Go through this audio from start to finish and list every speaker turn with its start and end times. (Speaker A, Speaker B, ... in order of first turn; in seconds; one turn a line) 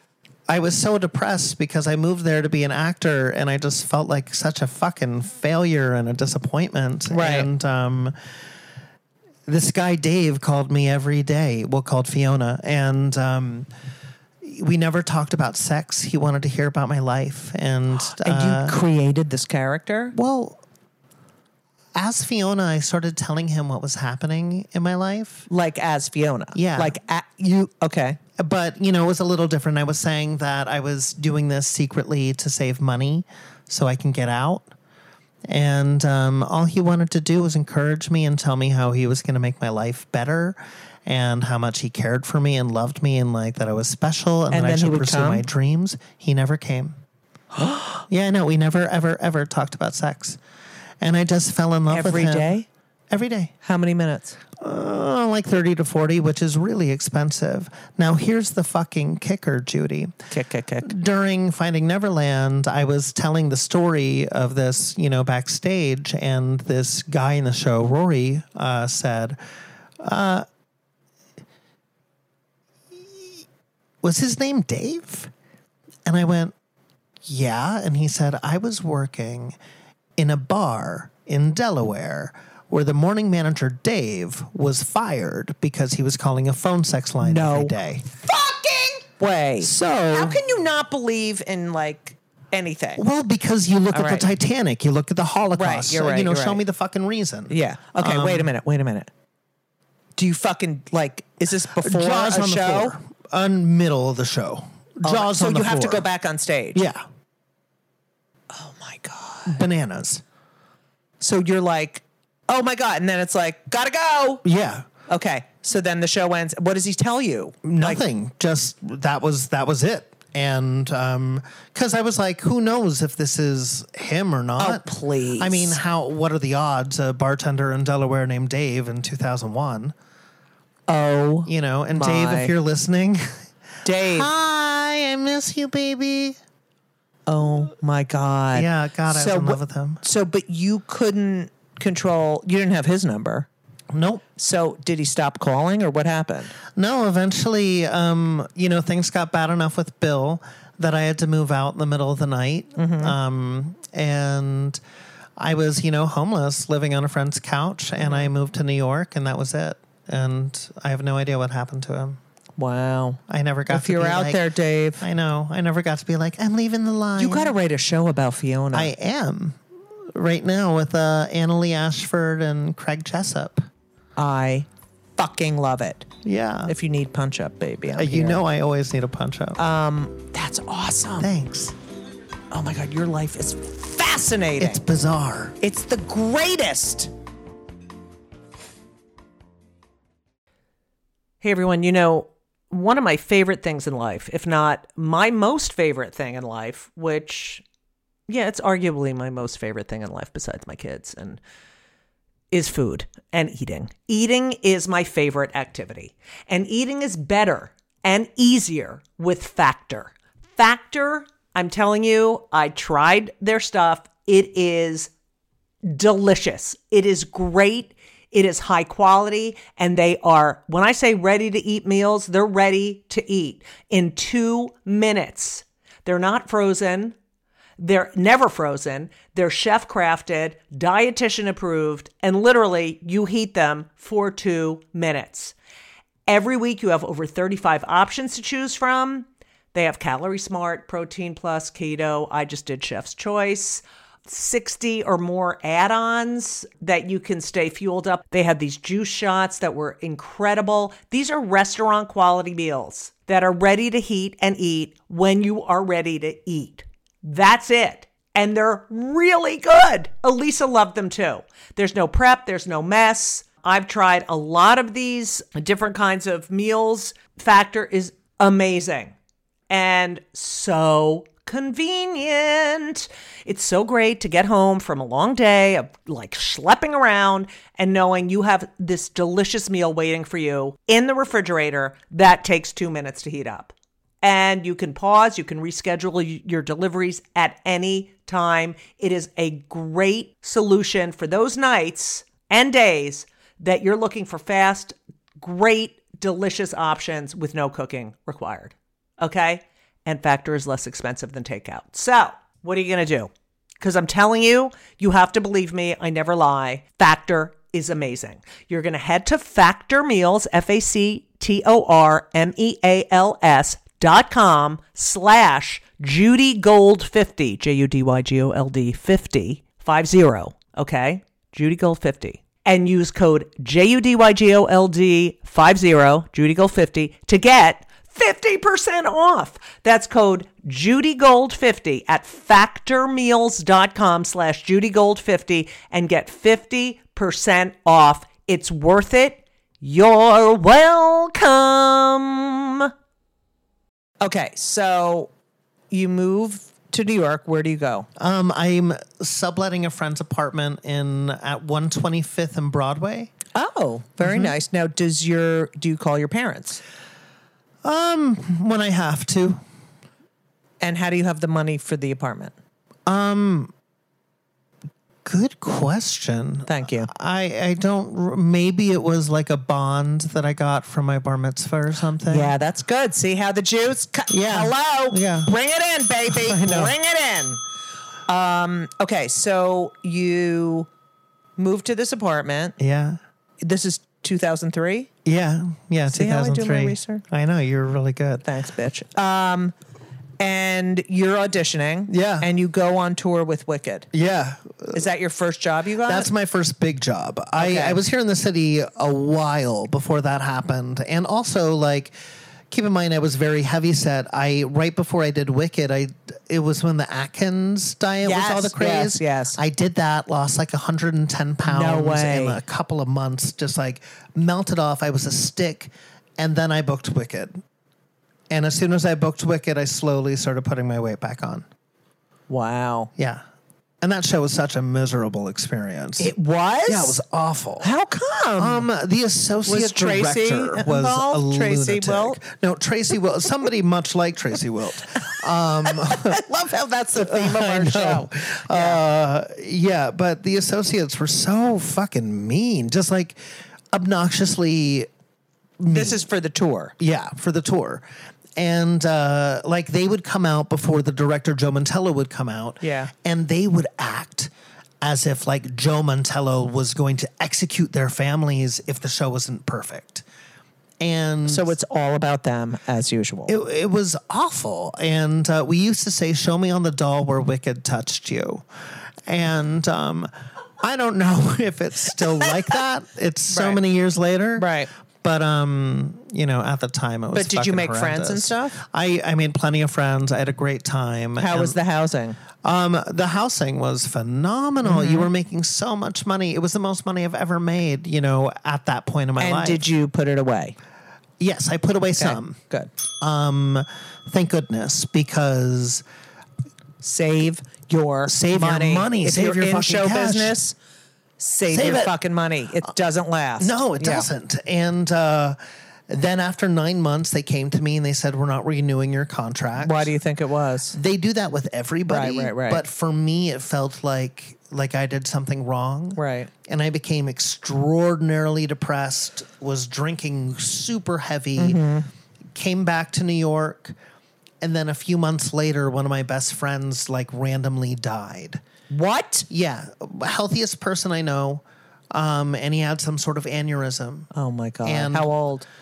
Speaker A: 0.5-8.1
Speaker B: 7.1-7.5
Speaker A: 9.5-13.7
Speaker A: 14.4-18.8
Speaker B: 17.9-20.1
Speaker A: 20.1-20.6
Speaker A: 21.9-25.5
Speaker B: 25.5-28.2
Speaker A: 26.5-27.0
Speaker A: 28.4-34.7
Speaker A: 35.5-47.0
Speaker B: 44.5-45.5
Speaker B: 47.5-48.0
Speaker A: 48.1-50.4
Speaker A: 51.0-52.5
Speaker B: 51.9-52.7
Speaker A: 53.1-53.5
Speaker B: 53.6-54.4
Speaker A: 54.6-60.1
Speaker B: 60.3-60.9
Speaker A: 60.8-69.4
Speaker A: 70.0-70.5
Speaker A: 72.9-73.4
Speaker A: 74.0-75.3
Speaker A: 76.0-76.5
Speaker A: 77.2-79.6
Speaker A: 80.2-88.1
Speaker B: 87.2-93.0
Speaker A: 89.6-90.5
Speaker A: 93.0-98.5
Speaker B: 93.9-94.3
Speaker B: 95.5-96.6
Speaker B: 97.5-99.1
Speaker B: 100.2-103.0
Speaker A: 101.8-106.1
Speaker B: 105.0-106.8
Speaker A: 106.7-107.0
Speaker B: 108.5-109.6
Speaker A: 109.5-110.2
Speaker B: 111.2-114.4
Speaker A: 114.4-114.8
Speaker B: 115.1-118.0
Speaker A: 117.6-129.9
Speaker B: 124.6-125.8
Speaker B: 130.9-132.5
Speaker A: 131.4-133.3
Speaker B: 133.8-134.3
Speaker A: 134.1-136.4
Speaker B: 137.3-143.5
Speaker A: 138.5-140.0
Speaker A: 143.9-144.2
Speaker B: 144.4-146.5
Speaker A: 146.7-154.8
Speaker B: 152.8-153.2
Speaker A: 155.4-162.2
Speaker B: 158.0-158.3
Speaker B: 162.6-165.0
Speaker A: 163.3-164.4
Speaker A: 165.0-167.5
Speaker B: 167.2-168.9
Speaker A: 168.7-169.6
Speaker A: 170.1-173.7
Speaker B: 174.2-176.1
Speaker A: 176.2-176.7
Speaker B: 176.7-178.4
Speaker A: 177.9-179.6
Speaker B: 179.6-181.3
Speaker A: 181.2-181.7
Speaker B: 182.5-184.8
Speaker A: 184.6-185.6
Speaker B: 185.6-187.1
Speaker B: 191.4-197.6
Speaker B: 198.3-201.4
Speaker B: 202.5-215.1
Speaker B: 215.8-227.2
Speaker B: 227.8-235.5
Speaker B: 236.3-269.1
Speaker B: 269.7-342.9
Speaker B: 344.2-345.3
Speaker B: 345.9-348.1
Speaker A: 348.2-353.3
Speaker B: 353.5-356.8
Speaker A: 354.2-354.5
Speaker A: 357.8-359.6
Speaker B: 360.8-362.5
Speaker A: 363.1-363.7
Speaker A: 365.2-372.5
Speaker B: 366.6-367.1
Speaker B: 372.3-377.6
Speaker A: 374.3-375.5
Speaker A: 376.3-376.9
Speaker B: 378.3-380.9
Speaker B: 381.6-382.8
Speaker A: 382.8-383.2
Speaker B: 383.6-385.1
Speaker A: 385.2-388.4
Speaker B: 386.1-387.2
Speaker B: 388.4-389.7
Speaker B: 390.4-394.1
Speaker A: 392.1-392.5
Speaker A: 394.1-395.1
Speaker B: 394.9-396.3
Speaker A: 396.0-402.1
Speaker B: 397.6-398.0
Speaker A: 402.7-417.6
Speaker B: 408.2-409.6
Speaker B: 411.6-412.6
Speaker A: 418.5-421.6
Speaker B: 422.5-423.1
Speaker A: 423.1-423.4
Speaker A: 424.0-426.3
Speaker B: 426.2-427.2
Speaker A: 426.9-427.9
Speaker B: 427.8-428.9
Speaker A: 428.6-436.4
Speaker B: 429.6-432.4
Speaker B: 435.9-439.0
Speaker A: 437.2-443.4
Speaker A: 443.9-445.1
Speaker A: 445.8-446.2
Speaker B: 445.9-446.9
Speaker A: 447.0-448.0
Speaker A: 448.6-454.5
Speaker B: 452.8-453.1
Speaker A: 455.0-460.2
Speaker A: 461.0-461.7
Speaker B: 461.4-463.5
Speaker A: 463.5-468.6
Speaker A: 469.2-474.7
Speaker B: 473.5-473.8
Speaker B: 474.6-474.9
Speaker A: 475.2-481.8
Speaker B: 477.3-478.8
Speaker B: 481.4-482.4
Speaker A: 482.6-489.8
Speaker B: 484.8-485.3
Speaker B: 489.4-490.8
Speaker A: 491.4-492.6
Speaker B: 492.2-492.9
Speaker A: 493.2-496.0
Speaker B: 497.0-500.7
Speaker A: 498.3-500.6
Speaker B: 501.4-504.3
Speaker A: 501.7-502.1
Speaker A: 503.6-510.1
Speaker B: 509.8-511.0
Speaker A: 510.9-521.8
Speaker B: 512.1-512.8
Speaker B: 516.1-516.5
Speaker B: 521.6-522.1
Speaker A: 522.5-524.0
Speaker A: 524.6-528.6
Speaker B: 528.9-529.5
Speaker A: 529.5-534.3
Speaker B: 534.3-535.6
Speaker A: 534.8-535.3